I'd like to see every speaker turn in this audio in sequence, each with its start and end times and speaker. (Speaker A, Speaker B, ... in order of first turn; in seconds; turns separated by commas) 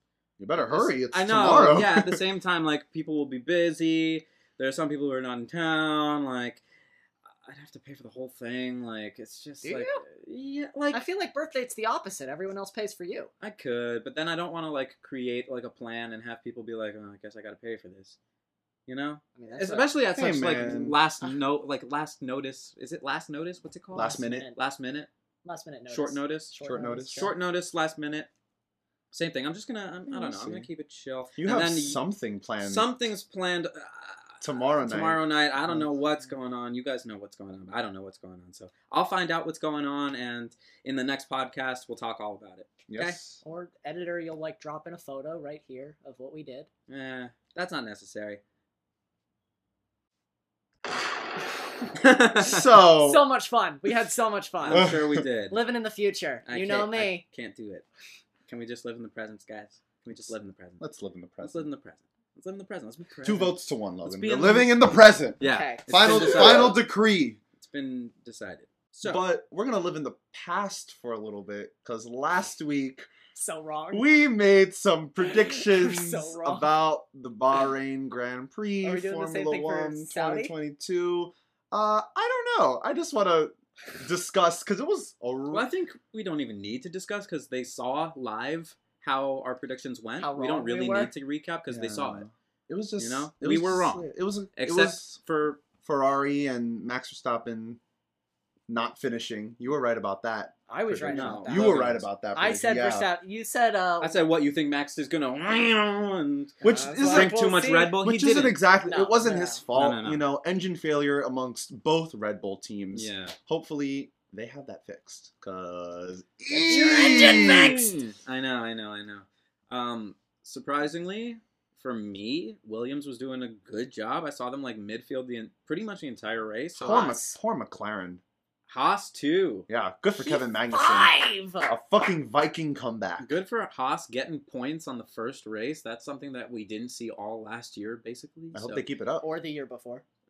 Speaker A: 0.4-2.2, Speaker B: 0.6-6.6, Speaker B: 7.2-11.0, Speaker C: 9.6-10.0, Speaker C: 10.9-13.3, Speaker B: 13.4-18.2, Speaker B: 18.9-25.1, Speaker C: 19.4-19.9, Speaker A: 20.1-21.0, Speaker A: 23.9-24.5, Speaker C: 24.0-24.6, Speaker C: 25.4-27.3, Speaker B: 25.9-26.6, Speaker A: 26.6-27.3, Speaker B: 27.1-28.3, Speaker B: 29.1-32.0, Speaker A: 30.1-30.7, Speaker A: 31.4-32.9, Speaker B: 32.6-43.2, Speaker A: 34.4-35.9, Speaker A: 42.9-43.4, Speaker C: 43.4-46.7, Speaker B: 46.9-48.4, Speaker B: 51.9-52.6, Speaker A: 52.4-53.2, Speaker C: 52.8-55.0, Speaker B: 54.6-55.6, Speaker A: 54.7-55.2, Speaker C: 55.5-57.2, Speaker B: 56.5-57.9, Speaker B: 58.5-60.9, Speaker A: 60.8-61.7, Speaker B: 61.4-64.8, Speaker A: 63.2-67.4, Speaker B: 65.4-66.8, Speaker C: 65.4-66.7, Speaker B: 67.6-69.2, Speaker A: 69.0-73.1, Speaker C: 73.3-74.0, Speaker A: 73.9-85.7, Speaker C: 75.2-76.7, Speaker C: 78.8-80.5, Speaker B: 85.5-92.2, Speaker C: 90.2-91.1, Speaker A: 91.7-95.2, Speaker B: 93.0-95.6, Speaker A: 95.8-97.8, Speaker A: 98.7-103.1, Speaker C: 100.7-104.2, Speaker B: 101.1-102.1, Speaker B: 104.0-108.6, Speaker A: 106.6-107.4, Speaker C: 106.6-108.0, Speaker A: 108.0-117.8, Speaker C: 108.8-109.6, Speaker B: 109.7-110.2, Speaker B: 112.9-113.3, Speaker C: 116.5-118.0, Speaker B: 116.7-127.0, Speaker C: 126.8-127.4, Speaker A: 126.8-128.2, Speaker B: 128.7-129.7, Speaker A: 129.7-131.1, Speaker C: 130.2-131.7, Speaker A: 131.6-133.3, Speaker B: 133.2-138.8, Speaker A: 138.5-139.3, Speaker C: 139.2-140.0